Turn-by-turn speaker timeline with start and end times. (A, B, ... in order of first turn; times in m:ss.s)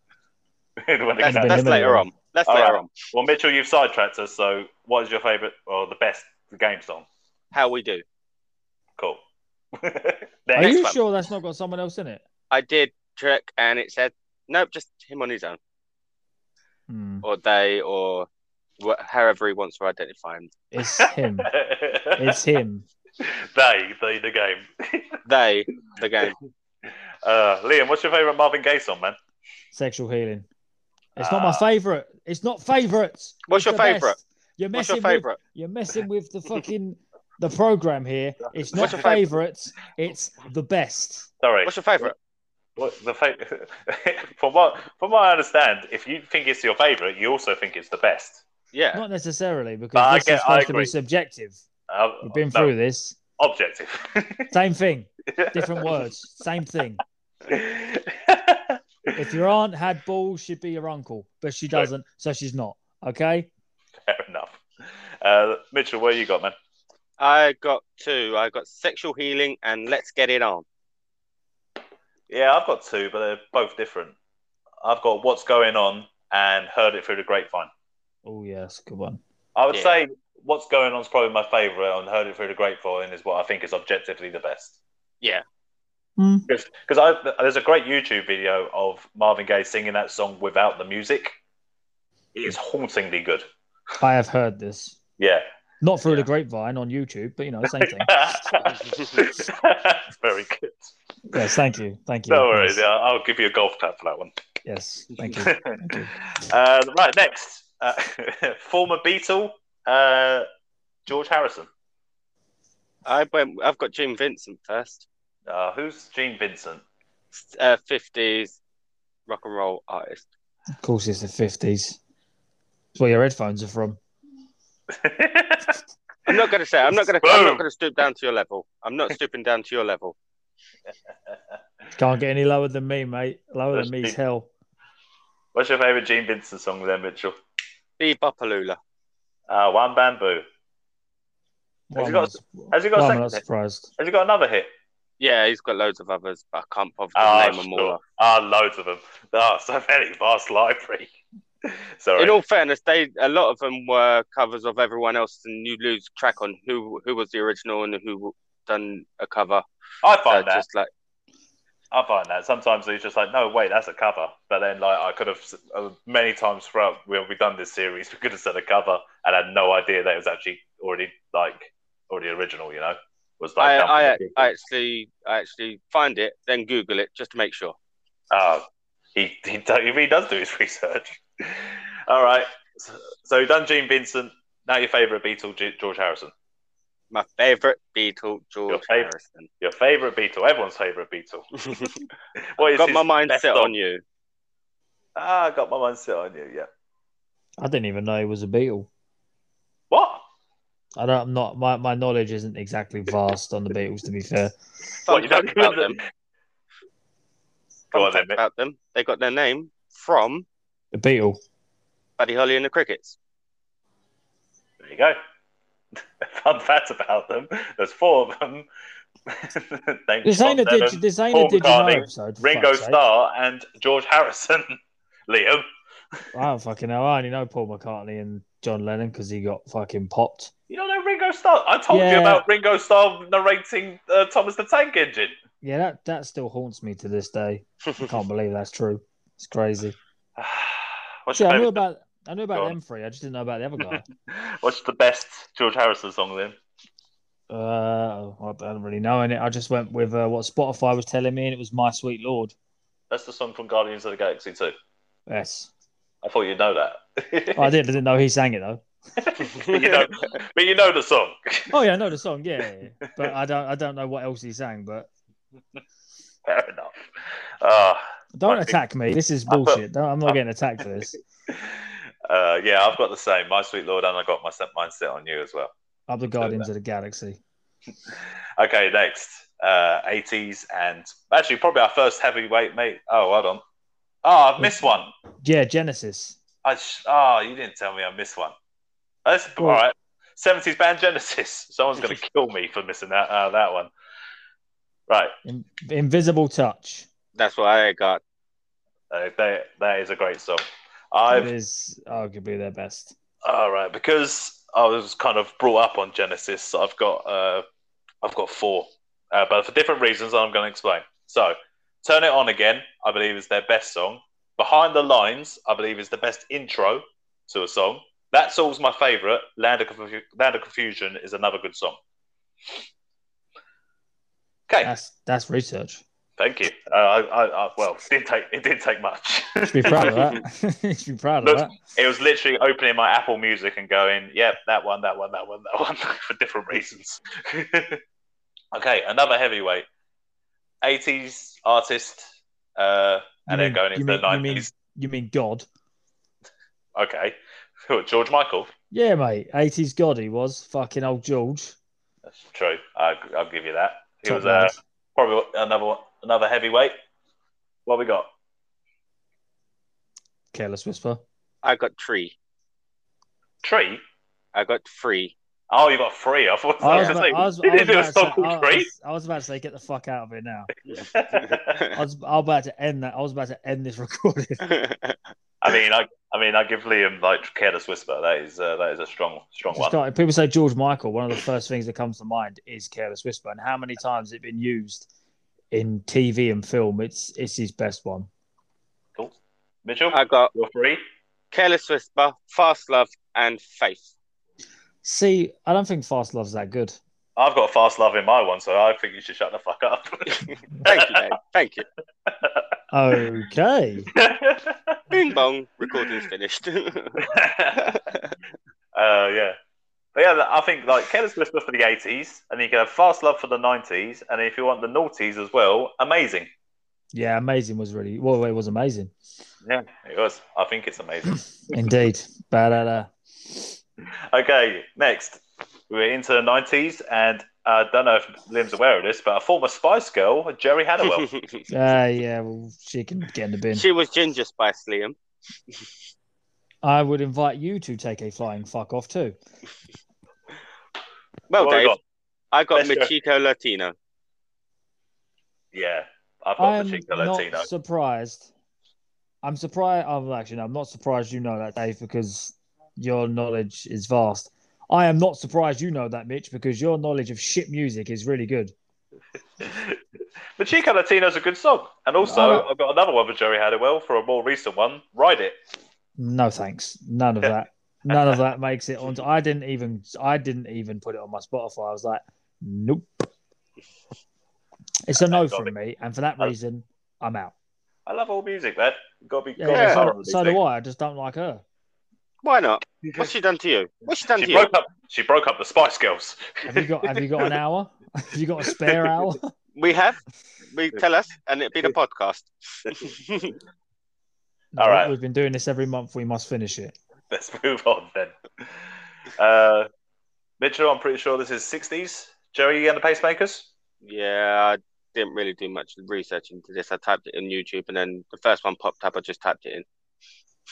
0:00.8-0:01.7 A
0:01.2-0:02.9 B
0:01.2-0:02.1 C
0:02.5-0:07.0 A
0:07.5-0:08.0 B
0:09.7-0:10.9 A
0:10.6-0:12.2 C
0:10.6-0:10.9 B
0:12.5-0:15.6 B
0:16.9-0:17.2 C
0:17.2-0:18.3 B
0:18.8-0:20.5 B
0:20.7-0:21.5 C
0:20.8-0:22.4 A
0:22.2-0:22.8 C
0:23.2-0:25.2 A
0:25.2-0:26.4 B
0:26.8-0:29.2 A
0:29.7-0:30.5 C
0:31.2-0:41.3 C
0:31.2-0:31.6 A
0:33.5-0:34.2 B
0:34.7-0:35.4 B
0:38.7-0:39.0 A
0:38.7-0:39.3 B
0:41.4-0:42.1 A
0:41.6-0:42.1 B
0:42.8-0:48.4 A
0:48.7-0:49.0 B
0:48.9-0:51.6 C
0:49.9-0:50.9 A
0:51.9-0:52.7 A
0:52.2-0:53.2 C
0:53.4-0:54.5 A
0:54.5-0:57.0 C
0:55.3-0:56.0 A
0:57.5-0:59.1 A
0:59.1-1:03.5 C
1:04.0-1:04.6 A
1:05.2-1:06.5 A
1:07.2-1:10.6 B
1:12.3-1:14.2 A
1:14.8-1:17.7 A
1:18.2-1:19.2 C
1:19.6-1:24.8 A
1:19.7-1:20.0 B
1:26.2-1:26.5 C
1:26.5-1:31.4 A
1:32.3-1:33.4 A
1:34.0-1:35.0 C
1:35.2-1:35.4 A
1:35.8-1:38.6 C
1:37.6-1:40.9 A
1:41.3-1:42.8 C
1:42.3-1:44.3 A
1:44.6-1:46.1 C
1:45.2-1:50.4 A
1:51.0-1:51.7 A
1:53.0-1:55.1 B
1:55.5-1:56.8 A
1:57.3-1:58.6 B
1:59.3-2:00.3 B
2:00.8-2:02.0 C
2:02.9-2:04.0 C
2:04.9-2:05.8 A
2:06.2-2:10.2 B
2:07.1-2:07.6 A
2:12.0-2:14.5 C
2:13.7-2:14.2 A
2:15.5-2:17.4 A
2:18.0-2:18.8 B
2:19.5-2:20.4 A
2:21.9-2:23.9 C
2:22.0-2:23.4 A
2:24.0-2:24.7 A
2:25.2-2:28.0 B
2:27.1-2:31.1 A
2:31.6-2:32.4 A
2:32.2-2:39.6 B
2:40.0-2:40.6 A
2:40.2-2:40.9 B
2:41.9-2:54.5 A
2:53.6-2:57.8 B
2:58.3-3:06.3 A
3:07.1-3:09.5 B
3:08.7-3:11.5 A
3:11.6-3:12.0 B
3:12.6-3:13.7 A
3:12.6-3:14.0 B
3:15.2-3:16.7 A
3:17.6-3:18.9 C
3:19.9-3:20.2 A
3:21.0-3:24.5 C
3:25.0-3:26.0 B
3:25.1-3:26.0 A
3:27.9-3:30.4 B
3:27.9-3:28.4 A
3:30.9-3:31.4 C
3:32.2-3:33.2 B
3:34.8-3:35.2 A
3:36.2-3:38.7 A
3:39.3-3:45.6 A
3:40.2-3:43.0 C
3:46.3-3:50.5 C
3:50.7-3:55.3 A
3:51.9-3:52.4 C
3:55.6-4:00.0 C
4:00.4-4:01.8 A
4:01.3-4:04.0 C
4:04.3-4:06.6 A
4:07.5-4:12.5 C
4:13.1-4:14.7 A
4:15.3-4:15.7 C
4:16.2-4:17.7 A
4:17.5-4:18.8 C
4:19.2-4:21.8 A
4:19.5-4:20.1 B
4:21.7-4:25.1 C
4:26.4-4:27.0 A
4:27.6-4:28.8 A
4:28.3-4:31.2 C
4:29.5-4:30.4 A
4:31.5-4:35.7 A
4:36.1-4:37.4 C
4:36.4-4:36.6 A
4:38.1-4:43.6 A
4:44.2-4:45.1 A
4:45.4-4:46.4 C
4:46.6-4:48.5 A
4:49.2-4:53.9 A
4:55.1-4:55.4 A
4:55.4-4:57.1 C
4:57.4-4:58.2 B
4:59.1-5:01.5 A
5:01.3-5:03.1 C
5:03.4-5:07.6 A
5:08.2-5:22.0 A
5:24.7-5:24.9 A
5:24.8-5:26.0 C
5:26.4-5:30.3 A
5:29.7-5:31.8 C
5:31.4-5:38.0 A
5:38.7-5:39.9 A
5:40.8-5:42.2 A
5:42.8-5:44.7 A
5:43.5-5:45.6 C
5:46.9-5:48.7 A
5:48.9-5:51.8 C
5:52.3-5:56.9 A
5:54.2-5:54.8 C
5:57.8-5:58.3 A
6:00.5-6:01.2 C
6:01.6-6:02.4 B
6:03.6-6:04.0 A
6:04.5-6:05.3 B
6:05.7-6:08.9 A
6:06.8-6:10.7 C
6:06.9-6:07.2 B
6:10.8-6:11.9 A
6:11.3-6:11.8 B
6:11.9-6:14.6 C
6:14.6-6:15.2 B
6:15.6-6:20.0 A
6:19.7-6:25.1 C
6:25.7-6:28.3 C
6:29.2-6:31.0 A
6:30.1-6:30.5 B
6:31.5-6:34.1 B
6:35.0-6:37.0 C
6:37.4-6:41.3 A
6:40.3-6:41.8 B
6:42.2-6:42.7 A
6:42.9-6:44.1 C
6:44.1-6:45.2 A
6:45.1-6:47.2 B
6:45.9-6:46.2 A
6:47.2-6:48.0 A
6:47.8-6:48.4 B
6:48.9-6:49.5 A
6:50.1-6:56.5 A
6:57.1-6:59.1 C
6:59.6-7:01.4 A
7:01.7-7:03.7 C
7:04.3-7:11.3 A
7:11.1-7:11.5 B
7:11.7-7:13.8 C
7:13.7-7:15.2 B
7:16.8-7:19.4 C
7:21.5-7:21.9 B
7:21.6-7:22.0 A
7:22.5-7:23.9 B
7:22.7-7:23.1 A
7:25.7-7:27.7 A
7:26.6-7:28.5 C
7:29.4-7:38.7 C
7:39.6-7:40.0 A
7:40.6-7:45.6 A
7:42.2-7:42.7 C
7:46.2-7:53.3 C
7:48.1-7:48.4 A
7:55.1-7:57.5 C
7:55.2-7:55.7 A
7:58.0-8:00.6 A
7:59.6-8:01.6 C
7:59.7-8:00.0 B
8:02.4-8:04.7 B
8:04.3-8:07.4 A
8:06.6-8:09.5 C
8:08.8-8:09.1 A
8:09.7-8:10.2 B
8:10.7-8:13.6 B
8:14.7-8:16.9 C
8:14.8-8:15.1 A
8:17.3-8:18.7 A
8:19.3-8:19.9 A
8:20.6-8:23.7 A
8:24.0-8:29.8 B